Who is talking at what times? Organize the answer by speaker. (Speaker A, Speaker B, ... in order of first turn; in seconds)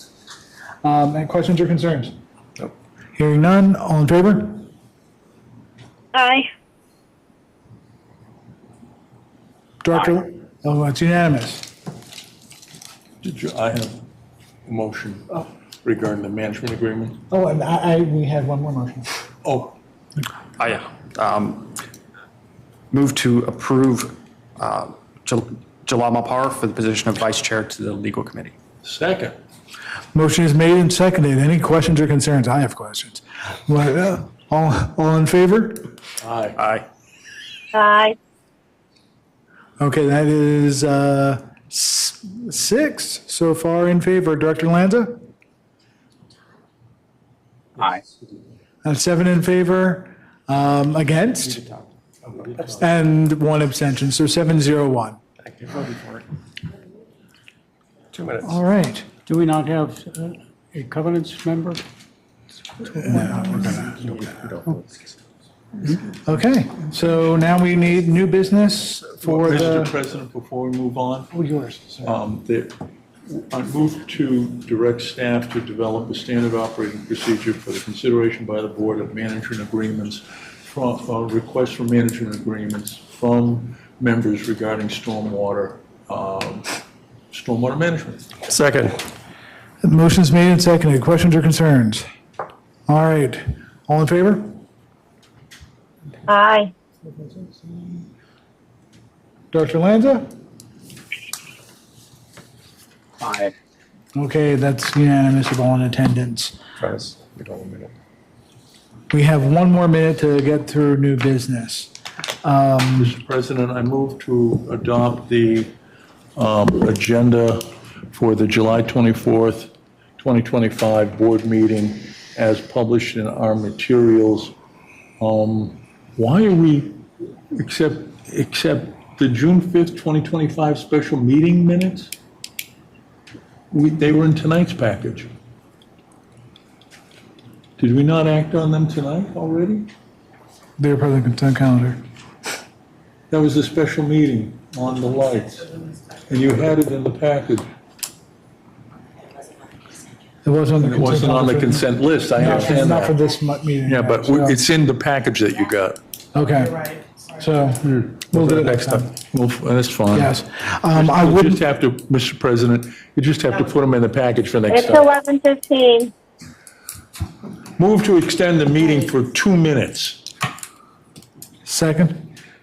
Speaker A: 0.8-2.1, 3.2-4.7, 9.8-11.7, 17.3-19.2, 30.1-35.9, 39.8-45.2, 48.8-51.6, 52.8-55.2, 58.4-59.1, 63.0-64.2, 66.1-69.9, 71.3-72.1, 89.8-92.1, 92.9-94.6, 97.2-97.7, 99.5-100.3, 104.1-106.6, 109.1-113.1, 140.8-142.0, 150.4-154.6, 156.3-159.1, 160.1-161.6, 171.7-172.3
Speaker B: 6.1-6.5, 37.7-38.2, 96.3-96.7, 164.7-166.1
Speaker C: 13.2-14.0, 14.7-17.2, 19.4-19.8, 28.8-29.4, 36.2-36.6, 52.4-52.7, 69.2-71.4, 72.0-86.7, 87.3-88.4, 113.0-115.7, 116.4-124.5, 125.2-132.1, 133.7-135.3, 137.8-139.9, 143.3-147.7, 150.8-153.2, 153.9-156.0, 159.3-165.1, 167.8-170.2
Speaker D: 20.6-21.8, 22.9-28.5, 36.6-36.9
Speaker E: 55.5-56.1, 58.1-58.5, 88.5-89.0, 106.8-107.9, 158.3-159.1
Speaker F: 59.3-61.8, 103.2-103.5